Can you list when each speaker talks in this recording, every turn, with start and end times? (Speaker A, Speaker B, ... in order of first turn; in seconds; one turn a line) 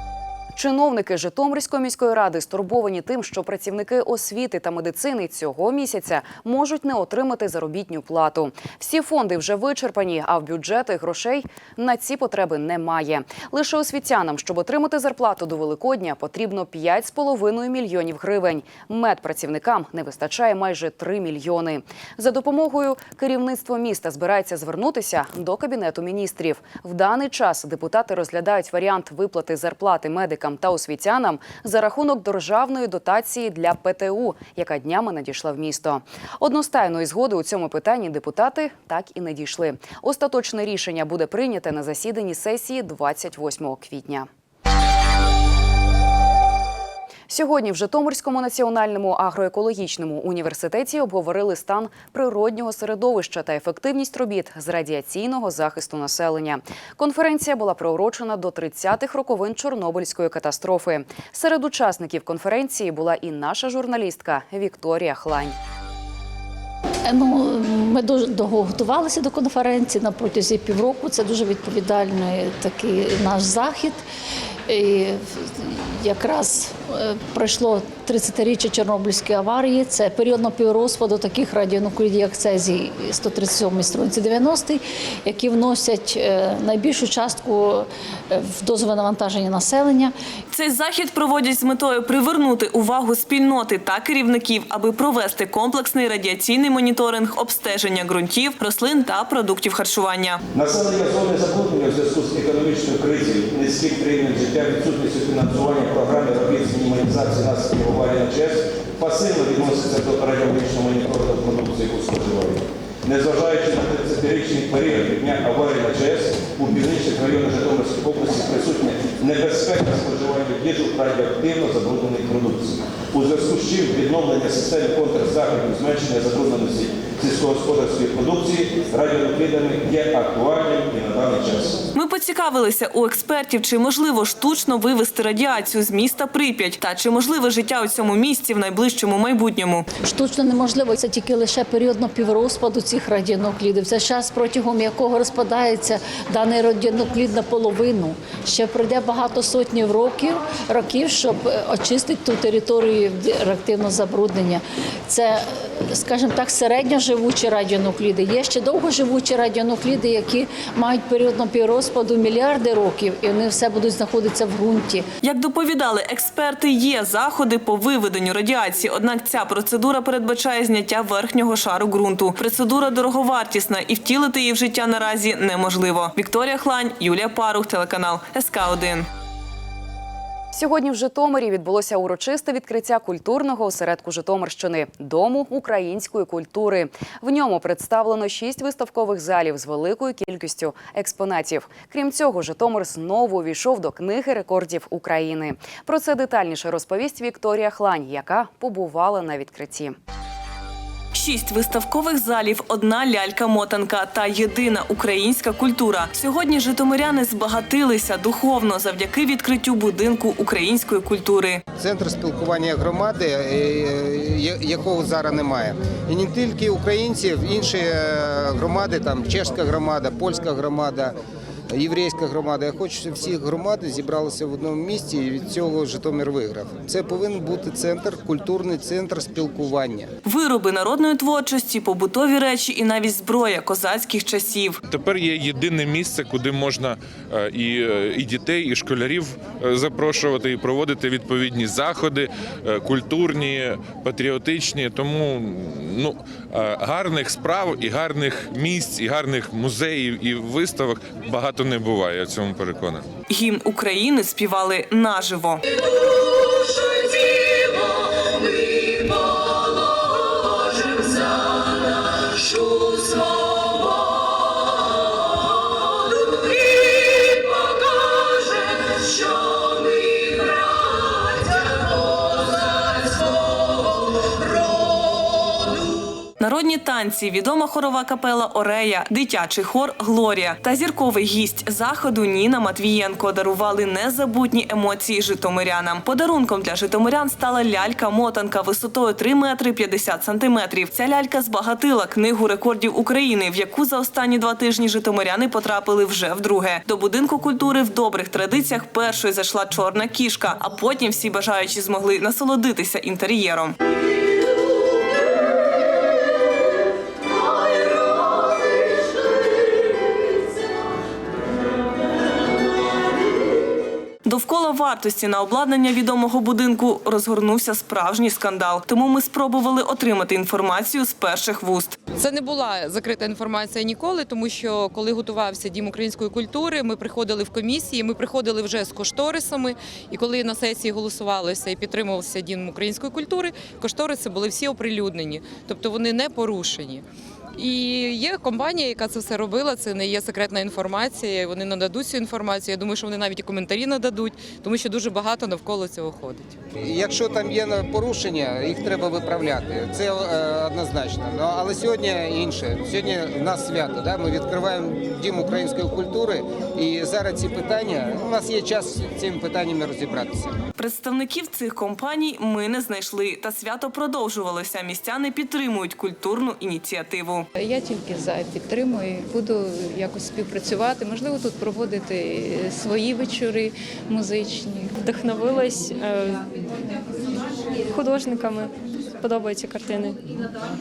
Speaker A: 0.6-44.3
Speaker A: 47.3-65.5
Speaker B: 67.0-74.0
Speaker B: 74.7-90.1
Speaker C: 90.5-100.4
Speaker D: 100.5-131.8
Speaker C: 131.9-139.9
Speaker B: 140.0-165.1
Speaker C: 165.2-179.1
Speaker A: 180.5-199.9
Speaker C: 201.1-211.6
Speaker E: 211.8-221.2
Speaker E: 221.7-230.1
Speaker C: 230.2-234.8
Speaker F: 234.9-253.0
Speaker C: 253.3-255.6
Speaker C: 276.4-303.7
Speaker C: 314.2-322.0
Speaker G: 322.1-337.0
Speaker G: 337.6-346.6
Speaker E: 346.7-360.5
Speaker C: 360.8-367.4
Speaker H: 367.5-374.9
Speaker I: 375.0-376.4
Speaker I: 377.8-380.2